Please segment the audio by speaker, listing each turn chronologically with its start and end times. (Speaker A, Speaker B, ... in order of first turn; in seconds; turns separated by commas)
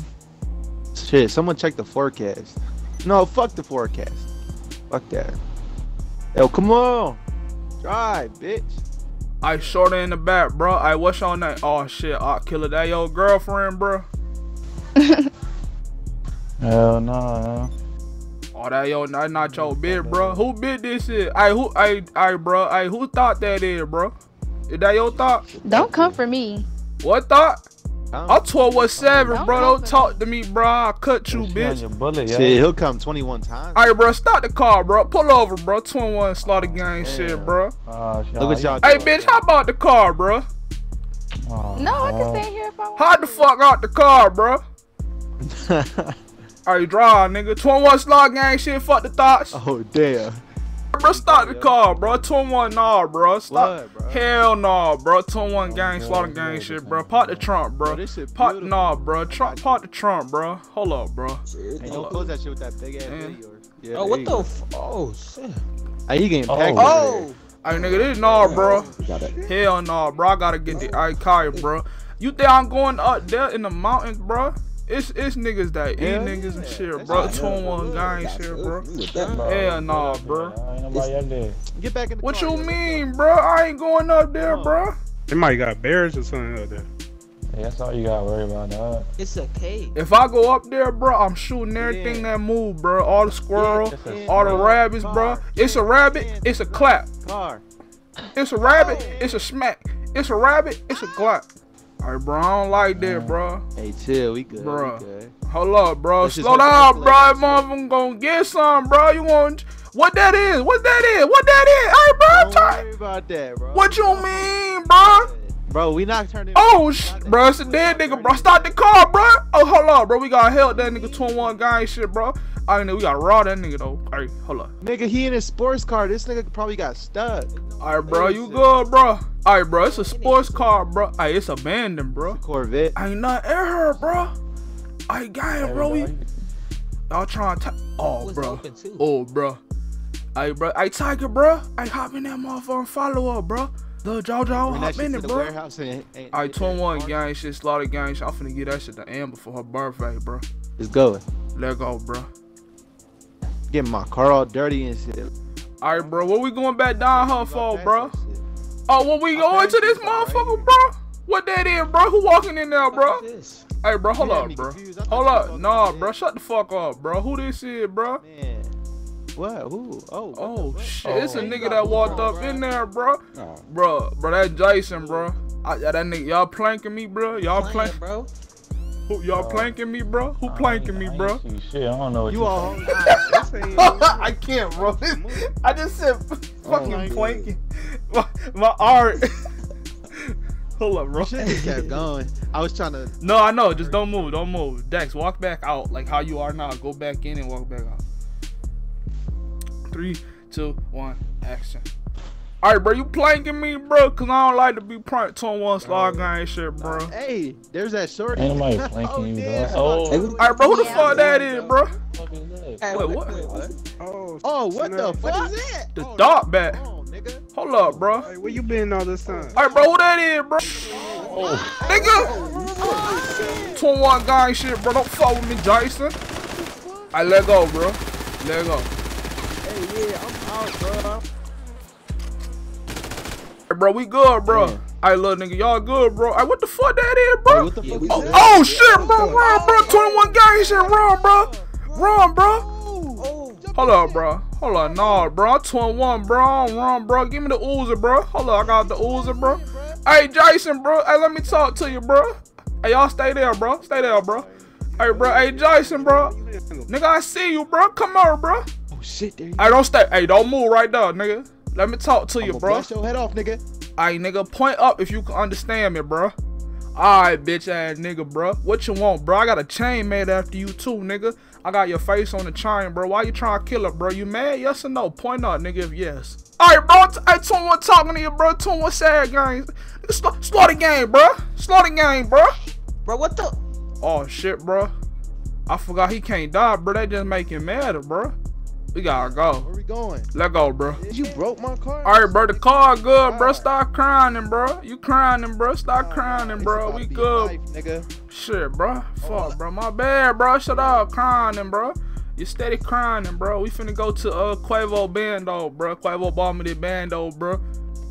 Speaker A: 0.9-4.3, Speaker A: 4.9-5.3, Speaker A: 6.3-7.2, Speaker A: 7.8-8.8, Speaker B: 9.4-14.1, Speaker A: 9.5-9.8, Speaker C: 15.0-15.2, Speaker D: 16.6-17.7, Speaker B: 18.5-24.1, Speaker D: 19.3-20.5, Speaker B: 24.7-25.4, Speaker E: 25.4-26.0, Speaker C: 25.6-26.6, Speaker B: 27.0-27.6, Speaker A: 28.1-28.4, Speaker B: 28.3-31.8, Speaker D: 29.0-29.6, Speaker C: 29.3-30.2, Speaker D: 31.3-32.6, Speaker A: 32.3-33.9, Speaker B: 33.7-37.7, Speaker D: 36.4-39.1, Speaker A: 37.0-37.6, Speaker A: 38.4-39.4, Speaker B: 38.8-40.4, Speaker D: 41.5-42.5, Speaker C: 41.8-43.5, Speaker B: 43.0-44.6, Speaker A: 45.4-46.1, Speaker B: 46.6-49.6, Speaker A: 49.5-50.4, Speaker B: 50.9-62.2, Speaker A: 51.0-52.2, Speaker A: 53.5-54.3, Speaker D: 55.6-57.5, Speaker A: 57.8-59.8, Speaker D: 61.8-62.1, Speaker A: 61.8-64.5, Speaker B: 63.0-63.4, Speaker F: 63.9-65.6, Speaker A: 66.1-67.3, Speaker D: 66.5-66.9, Speaker F: 66.7-67.4, Speaker B: 67.6-68.9, Speaker E: 67.9-69.4, Speaker F: 68.4-69.0, Speaker B: 69.4-78.9, Speaker A: 76.0-77.7, Speaker E: 77.0-79.4, Speaker D: 77.2-77.6, Speaker F: 79.0-79.4, Speaker D: 79.3-81.6, Speaker B: 79.4-80.6, Speaker A: 81.7-83.1, Speaker B: 82.2-84.9, Speaker A: 84.4-84.8, Speaker G: 85.3-86.9, Speaker D: 87.5-89.1, Speaker F: 89.2-89.9, Speaker B: 89.9-97.1, Speaker A: 91.8-92.3, Speaker A: 93.5-97.6, Speaker D: 93.8-94.7, Speaker B: 98.3-101.5, Speaker A: 98.6-99.5, Speaker F: 98.7-99.2, Speaker B: 102.0-103.6, Speaker D: 102.9-103.4, Speaker A: 103.8-105.3, Speaker B: 104.6-112.8, Speaker A: 106.2-107.7, Speaker A: 112.2-118.8, Speaker B: 113.7-115.3, Speaker B: 116.5-124.7, Speaker A: 120.7-121.5, Speaker A: 124.8-128.8, Speaker B: 127.8-132.4, Speaker F: 129.8-130.8, Speaker A: 132.2-133.0, Speaker B: 132.9-134.3, Speaker B: 135.1-136.1, Speaker D: 135.6-136.3, Speaker B: 137.1-139.6, Speaker F: 138.2-139.1, Speaker B: 140.3-145.5, Speaker A: 144.5-147.2, Speaker B: 146.3-150.4, Speaker A: 150.8-151.2, Speaker B: 151.5-152.3, Speaker A: 153.7-155.3, Speaker B: 155.8-158.2, Speaker A: 157.1-158.4, Speaker B: 158.9-163.2, Speaker A: 159.3-160.7, Speaker F: 162.9-163.6, Speaker B: 163.8-168.2, Speaker A: 164.2-166.2, Speaker A: 168.2-168.8, Speaker A: 169.3-172.6, Speaker B: 170.3-178.0, Speaker D: 171.0-171.5, Speaker F: 171.3-172.6, Speaker E: 173.3-173.6, Speaker F: 177.4-178.3, Speaker B: 179.1-181.4, Speaker D: 179.3-179.8, Speaker D: 180.4-183.0, Speaker A: 182.3-184.1, Speaker B: 182.9-189.3, Speaker G: 183.3-185.5, Speaker A: 186.6-187.3, Speaker E: 186.6-187.5, Speaker B: 190.1-191.4, Speaker A: 191.2-194.4, Speaker F: 191.4-192.1, Speaker B: 193.2-198.0, Speaker B: 199.9-201.9, Speaker B: 202.6-207.1, Speaker G: 205.8-206.3, Speaker A: 206.8-211.8, Speaker D: 208.3-210.3, Speaker E: 210.1-211.4, Speaker B: 210.4-211.9, Speaker C: 210.6-211.2, Speaker D: 212.1-212.8, Speaker F: 212.8-213.7, Speaker B: 212.9-213.4, Speaker A: 213.4-213.7, Speaker G: 214.0-215.4, Speaker A: 214.4-218.6, Speaker B: 215.9-216.8, Speaker B: 217.5-218.3, Speaker G: 218.2-219.6, Speaker A: 219.2-219.9, Speaker B: 219.5-221.1, Speaker A: 220.6-223.8, Speaker F: 220.9-223.8, Speaker D: 221.2-221.8, Speaker B: 221.8-222.3, Speaker B: 223.7-226.2, Speaker A: 226.3-227.2, Speaker B: 227.1-228.9, Speaker A: 229.6-231.2, Speaker B: 233.7-242.7, Speaker A: 234.5-234.8, Speaker A: 237.4-245.3, Speaker F: 237.8-240.1, Speaker E: 237.9-239.3, Speaker C: 239.4-239.8, Speaker F: 243.2-243.7, Speaker B: 243.7-254.4, Speaker A: 248.5-250.0, Speaker A: 251.4-252.0, Speaker A: 253.7-255.7, Speaker B: 255.0-256.3, Speaker G: 255.2-256.9, Speaker B: 256.9-258.6, Speaker A: 258.9-259.8, Speaker B: 259.6-262.9, Speaker A: 262.4-263.6, Speaker B: 264.0-266.3, Speaker B: 266.9-282.6, Speaker F: 283.0-283.6, Speaker B: 284.0-284.9, Speaker B: 285.7-288.3, Speaker B: 288.9-289.7, Speaker A: 289.0-290.3, Speaker B: 290.3-291.0, Speaker A: 290.9-293.7, Speaker B: 292.0-297.5, Speaker A: 295.9-298.1, Speaker B: 298.3-307.6, Speaker A: 299.2-299.5, Speaker A: 300.7-301.0